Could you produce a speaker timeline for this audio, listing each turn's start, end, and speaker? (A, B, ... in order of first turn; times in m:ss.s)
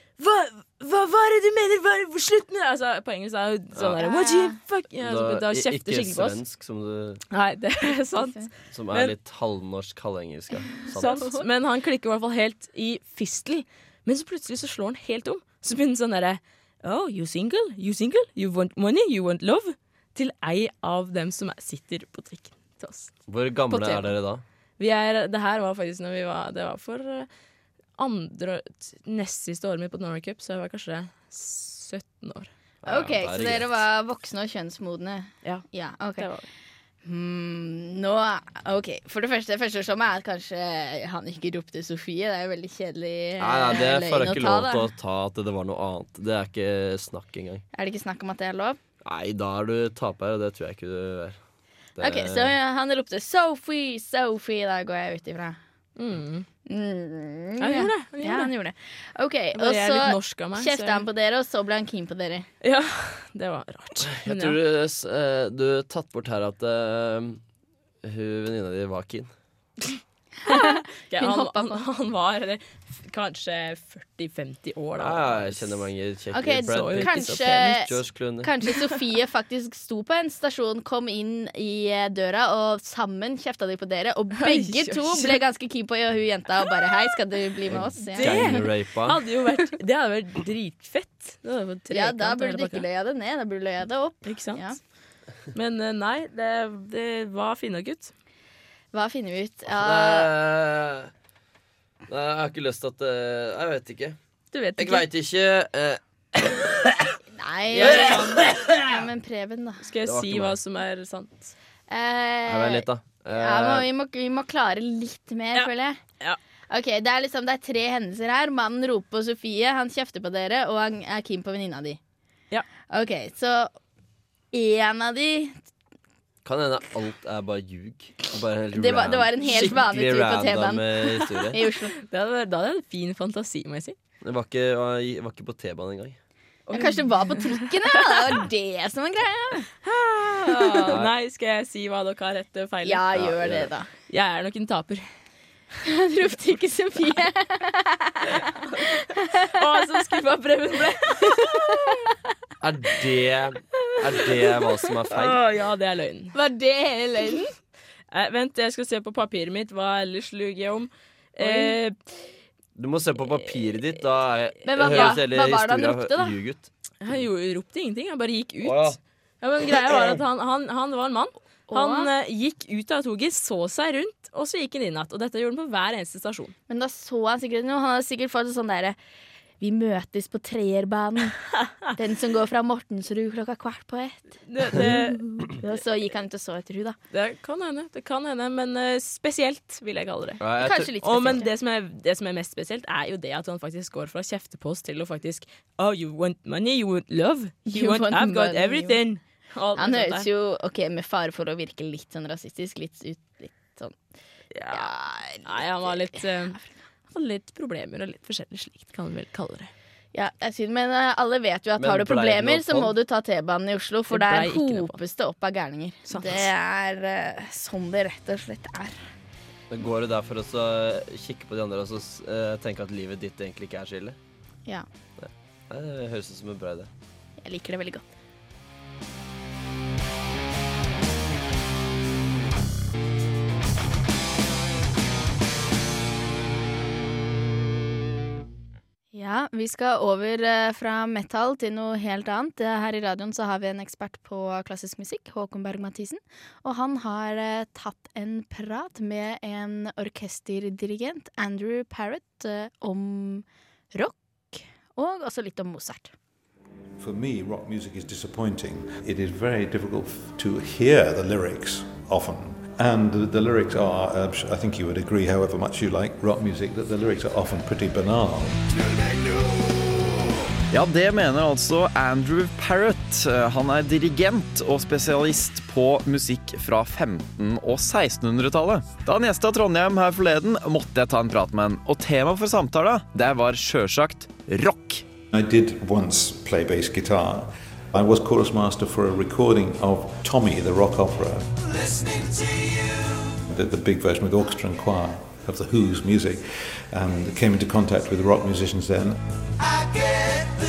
0:00.2-0:06.4 A
0:03.7-0:04.0 B
0:04.0-0:04.6 C
0:05.0-0:07.2 B
0:07.3-0:09.1 A
0:08.1-0:08.5 C
0:08.7-0:11.3 B
0:10.8-0:24.2 A
0:10.9-0:11.4 C
0:23.3-0:24.4 B
0:24.8-0:27.3 A
0:28.0-0:32.5 A
0:32.8-0:33.8 B
0:32.8-0:36.3 C
0:35.4-0:36.5 A
0:37.0-0:44.9 C
0:43.4-0:47.6 B
0:47.7-0:48.8 C
0:49.0-0:51.4 B
0:51.9-0:52.6 B
0:52.0-0:55.6 C
0:56.0-0:56.5 A
0:56.6-1:02.5 C
0:57.6-0:58.5 A
0:59.5-1:01.0 A
1:02.6-1:04.6 A
1:04.1-1:07.4 B
1:08.0-1:09.3 B
1:10.4-1:11.8 C
1:10.5-1:15.8 A
1:15.0-1:18.5 B
1:16.3-1:28.6 C
1:16.6-1:17.9 A
1:24.4-1:25.4 A
1:27.7-1:29.2 B
1:28.1-1:32.8 A
1:31.9-1:34.8 C
1:34.2-1:34.9 A
1:35.5-1:38.1 A
1:38.9-1:40.3 C
1:39.7-1:41.1 B
1:42.1-1:44.2 B
1:44.5-1:45.1 A
1:44.8-1:46.9 B
1:47.3-1:49.8 C
1:47.7-1:48.8 A
1:47.8-1:48.7 B
1:49.8-1:51.5 A
1:50.0-1:50.6 B
1:51.9-1:56.0 C
1:52.4-1:53.9 B
1:55.5-1:56.4 A
1:56.7-2:02.0 C
2:02.9-2:03.7 C
2:04.5-2:05.6 C
2:06.4-2:11.6 B
2:08.7-2:11.9 C
2:12.0-2:14.0 A
2:14.2-2:16.2 B
2:16.7-2:18.2 A
2:16.7-2:19.7 C
2:19.8-2:23.0 A
2:20.5-2:20.9 C
2:22.8-2:23.9 C
2:23.1-2:23.7 B
2:24.1-2:25.1 A
2:25.9-2:28.3 C
2:28.4-2:32.0 A
2:32.6-2:35.4 B
2:34.6-2:36.4 A
2:36.3-2:37.5 C
2:38.1-2:42.0 A
2:41.4-2:41.8 C
2:42.8-2:47.2 B
2:44.6-2:46.4 C
2:44.8-2:45.2 A
2:47.0-2:56.6 A
2:48.6-2:49.0 B
2:49.7-2:50.2 B
2:51.7-2:52.1 C
2:56.7-2:59.0 C
2:59.6-3:07.0 C
3:04.5-3:05.6 A
3:07.1-3:10.4 A
3:10.4-3:11.4 B
3:10.6-3:11.4 C
3:11.0-3:20.3 A
3:17.7-3:19.0 C
3:19.8-3:24.0 C
3:24.5-3:24.9 A
3:24.7-3:26.2 C
3:25.4-3:29.7 A
3:30.1-3:39.0 C
3:31.8-3:32.9 B
3:34.1-3:35.0 A
3:36.1-3:36.5 A
3:39.7-3:44.2 B
3:45.2-3:46.9 B
3:47.4-3:48.0 C
3:59.1-4:16.1 C
4:17.0-4:28.6 D
4:30.7-4:45.0 E
4:45.3-4:51.6 D
4:53.4-4:59.2 D